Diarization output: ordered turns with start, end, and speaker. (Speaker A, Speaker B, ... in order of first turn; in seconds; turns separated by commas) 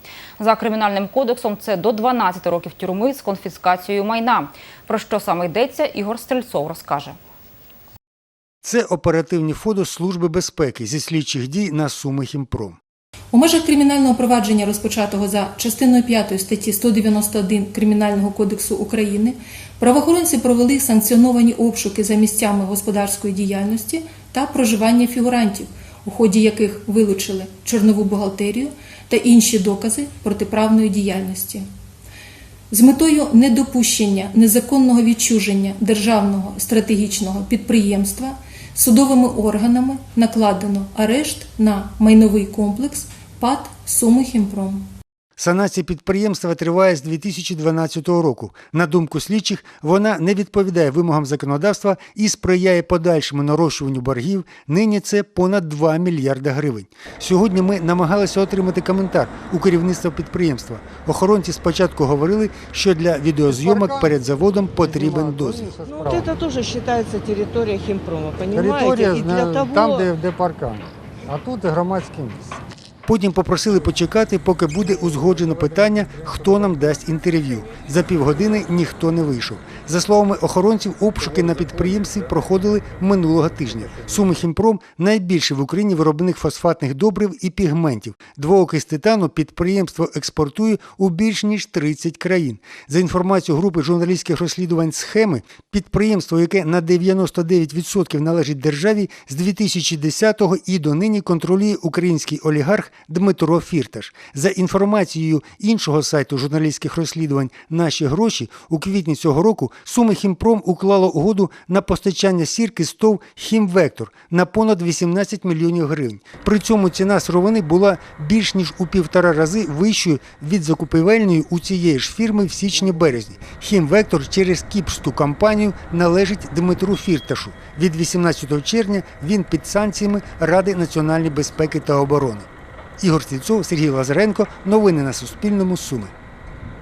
Speaker A: 0.4-7.2, Speaker B: 8.6-12.8, Speaker C: 13.3-31.6, Speaker C: 32.7-44.8, Speaker B: 45.4-65.7, Speaker D: 63.5-64.1, Speaker D: 64.8-66.3, Speaker E: 65.8-70.1, Speaker D: 68.5-72.5, Speaker B: 73.0-132.5, Speaker D: 75.5-76.8, Speaker D: 81.5-81.9, Speaker B: 133.0-136.1